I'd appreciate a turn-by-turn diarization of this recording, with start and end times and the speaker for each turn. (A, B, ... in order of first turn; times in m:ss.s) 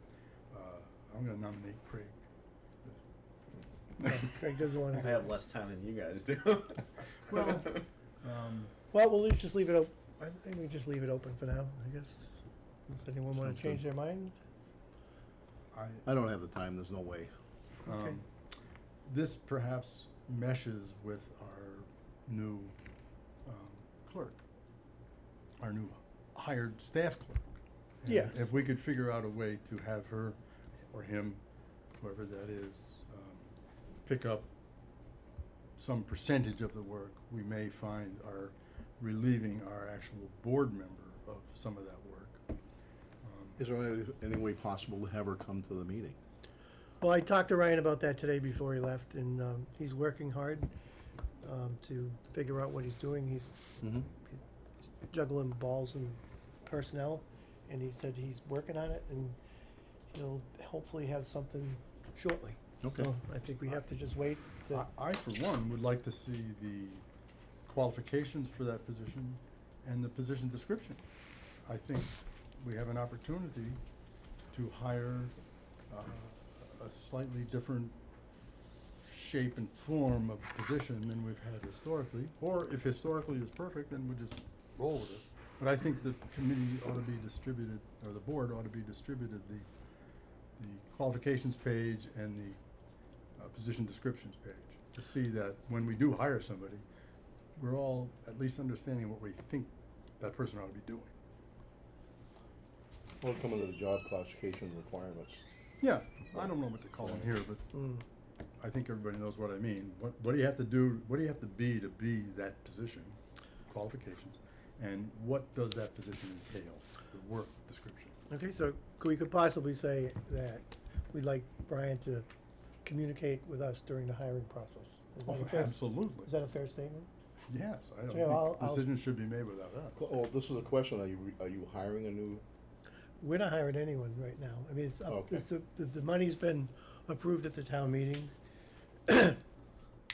0:00.5-0:02.2 A
0:04.0-0:05.3 B
0:04.9-0:07.4 C
0:07.3-0:08.7 A
0:08.9-0:14.3 B
0:13.5-0:13.7 D
0:15.7-0:16.1 A
0:16.0-0:17.3 D
0:17.8-0:18.3 A
0:19.0-0:22.8 A
0:23.4-0:24.4 A
0:25.6-0:30.4 A
0:28.0-0:28.4 B
0:30.9-0:31.4 A
0:32.0-0:33.5 A
0:34.0-0:34.5 A
0:35.8-0:42.4 A
0:43.2-0:43.6 A
0:43.6-0:46.2 D
0:47.0-0:50.7 B
0:51.4-0:53.6 B
0:53.8-0:54.0 D
0:55.1-0:59.4 B
1:00.1-1:04.9 B
1:02.8-1:03.1 D
1:04.7-1:07.0 A
1:07.6-1:11.0 A
1:11.6-1:13.8 A
1:14.5-1:15.3 A
1:15.9-1:18.0 A
1:19.1-1:29.7 A
1:30.6-1:32.6 A
1:33.4-1:36.8 A
1:37.6-1:41.1 A
1:43.2-1:45.4 D
1:45.8-1:47.7 A
1:47.7-1:48.0 B
1:48.6-1:58.2 A
1:58.3-2:02.3 B
2:02.8-2:07.1 B
2:05.2-2:06.3 A
2:07.5-2:10.0 A
2:08.1-2:08.9 B
2:10.0-2:12.4 D
2:13.2-2:18.3 B
2:15.1-2:15.4 D
2:19.1-2:19.4 B